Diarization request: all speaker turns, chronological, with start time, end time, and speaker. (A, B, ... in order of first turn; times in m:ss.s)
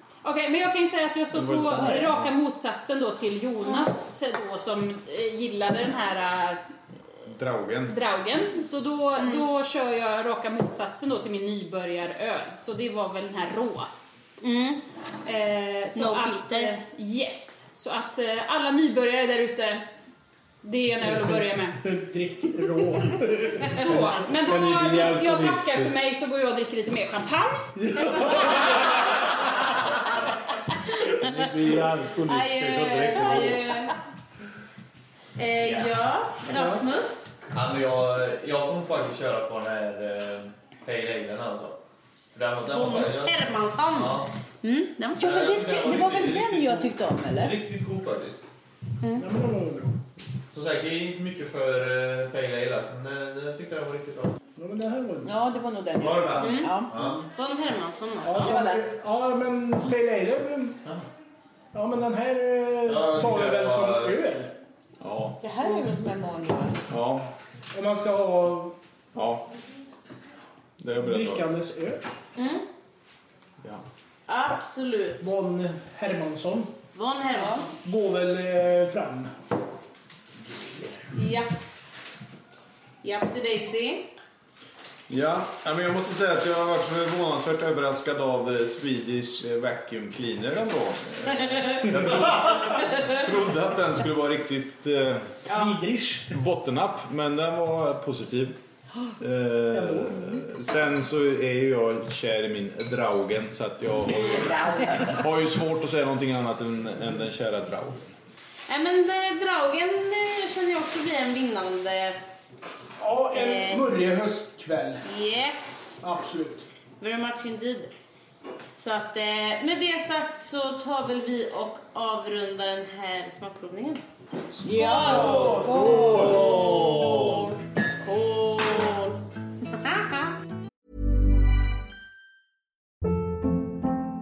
0:00.2-0:06.6 A
0:01.3-0:02.3 B
0:07.3-0:08.0 B
0:07.9-0:13.9 A
0:09.2-0:09.4 C
0:14.4-0:14.8 C
0:15.2-0:19.8 A
0:16.0-0:16.7 C
0:20.6-0:21.8 A
0:21.0-0:24.3 D
0:23.6-0:27.6 A
0:24.4-0:25.9 E
0:27.8-0:28.7 D
0:31.0-0:31.7 C
0:31.1-0:33.8 E
0:32.2-0:33.9 C
0:35.4-0:37.4 C
0:36.5-0:36.8 D
0:37.5-0:41.7 F
0:42.4-0:43.4 F
0:42.7-0:45.6 C
0:44.0-0:44.3 F
0:45.2-0:47.6 G
0:45.2-0:46.8 F
0:47.4-0:48.5 F
0:49.0-0:49.3 C
0:49.2-0:49.9 D
0:50.5-0:54.3 F
0:54.6-0:55.3 D
0:55.2-0:57.1 G
0:56.0-0:57.2 F
0:56.4-0:58.6 C
0:58.2-1:00.8 D
0:58.3-0:58.8 G
1:01.7-1:04.5 D
1:02.9-1:04.2 F
1:05.0-1:05.4 B
1:05.4-1:06.8 G
1:06.9-1:07.3 B
1:07.7-1:08.8 D
1:09.2-1:09.5 B
1:10.8-1:11.5 B
1:11.0-1:12.0 D
1:12.4-1:12.6 C
1:14.3-1:15.3 C
1:15.2-1:16.7 D
1:16.9-1:17.8 C
1:17.4-1:17.6 G
1:17.8-1:19.3 D
1:21.1-1:21.5 C
1:23.0-1:24.1 C
1:25.1-1:35.4 B
1:31.5-1:32.2 C
1:32.8-1:33.2 C
1:35.5-1:35.7 C
1:35.5-1:36.4 D
1:36.3-1:38.6 B
1:39.2-1:44.6 B
1:39.7-1:40.5 D
1:44.7-1:45.1 G
1:44.8-1:45.0 D
1:45.1-1:48.1 B
1:48.7-1:52.2 C
1:53.0-1:55.0 D
1:53.3-1:53.9 C
1:55.0-1:55.6 C
1:56.0-1:56.7 D
1:57.0-1:57.9 C
1:58.7-2:04.0 C
2:04.5-2:05.6 D
2:04.6-2:06.7 G
2:04.8-2:10.3 C
2:05.7-2:06.2 B